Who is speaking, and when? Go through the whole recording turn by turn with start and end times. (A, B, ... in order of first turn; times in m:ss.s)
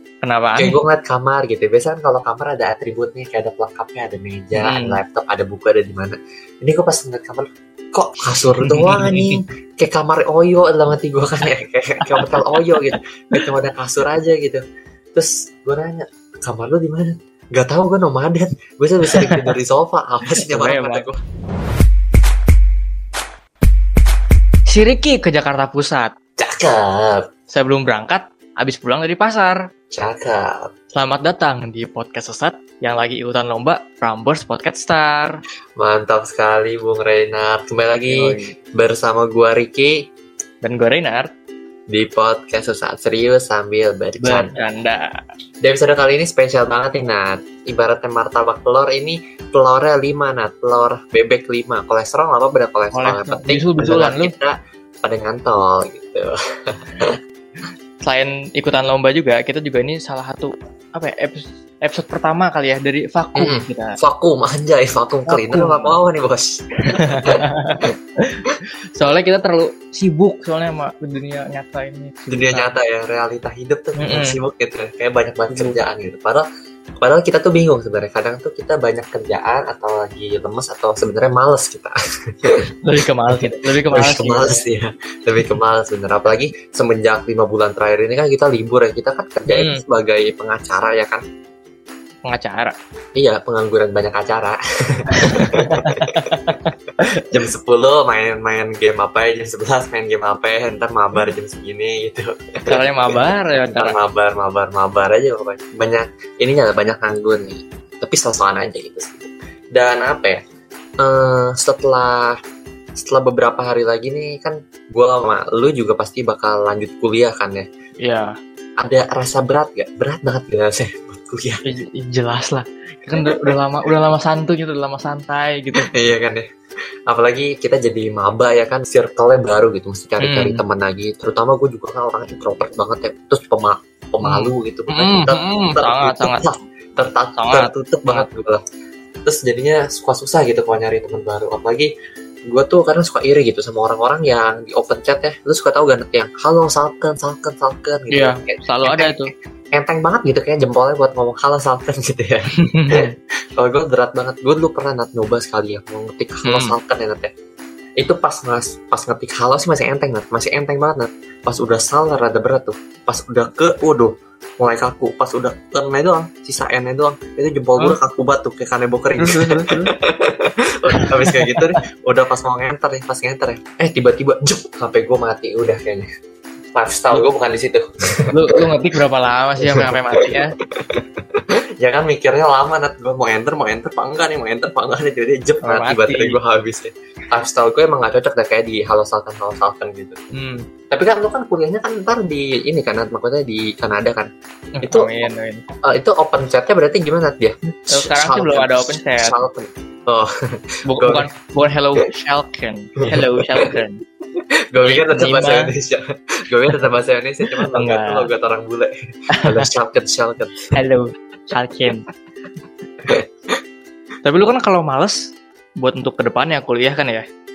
0:00.2-0:00.8 A
0:00.6-0:14.6 B
0:04.6-0:05.0 A
0:08.6-0:09.4 A
0:12.1-0:12.4 A
0:15.2-0:21.2 B
0:19.1-0:19.5 A
0:20.5-0:21.0 A
0:24.7-0:26.1 A
0:26.4-0:27.2 B
0:27.5-0:29.6 A
0:29.9-0:30.7 B
0:30.9-0:35.4 A
0:35.8-0:40.0 B
0:38.1-0:38.5 A
0:40.6-0:41.3 A
0:41.9-0:44.5 B
0:44.2-0:45.1 A
0:45.6-0:57.1 B
0:52.9-0:54.3 A
0:58.0-1:04.0 A
1:03.4-1:06.6 B
1:05.3-1:05.9 A
1:06.9-1:12.7 A
1:07.2-1:07.9 B
1:12.3-1:16.5 B
1:14.0-1:14.4 A
1:15.5-1:15.8 A
1:17.0-1:22.6 B
1:22.8-1:24.6 A
1:23.3-1:31.2 B
1:29.5-1:29.8 A
1:32.2-1:32.8 A
1:33.2-1:36.5 B
1:35.2-1:37.1 A
1:37.3-1:42.7 B
1:42.7-1:44.0 A
1:43.6-1:50.4 B
1:51.0-1:52.4 B
1:53.0-1:57.7 B
1:58.0-1:58.3 A
1:58.8-2:01.6 B
2:01.6-2:05.9 A
2:03.2-2:03.5 B
2:05.8-2:06.4 B
2:07.1-2:18.6 B
2:10.2-2:10.6 A
2:14.2-2:16.4 A
2:17.4-2:18.3 A
2:19.3-2:21.9 B
2:22.5-2:37.3 B
2:28.1-2:29.3 A
2:32.6-2:33.1 A
2:36.4-2:36.8 A
2:38.0-2:56.1 B
2:49.2-2:49.9 A
2:50.9-2:51.6 A
2:56.8-2:58.2 B
2:58.3-3:00.5 A
2:59.7-3:00.3 B
3:01.8-3:10.2 B
3:05.6-3:06.4 A
3:10.3-3:10.6 A
3:10.9-3:14.3 B
3:14.8-3:15.6 A
3:14.8-3:15.1 B
3:15.8-3:20.3 B
3:17.9-3:19.3 A
3:20.9-3:24.0 A
3:21.0-3:21.3 B
3:24.7-3:28.9 B
3:24.8-3:25.7 A
3:27.7-3:28.3 A
3:29.4-3:29.7 A
3:29.4-3:30.7 B
3:30.7-3:32.0 A
3:34.2-3:37.2 A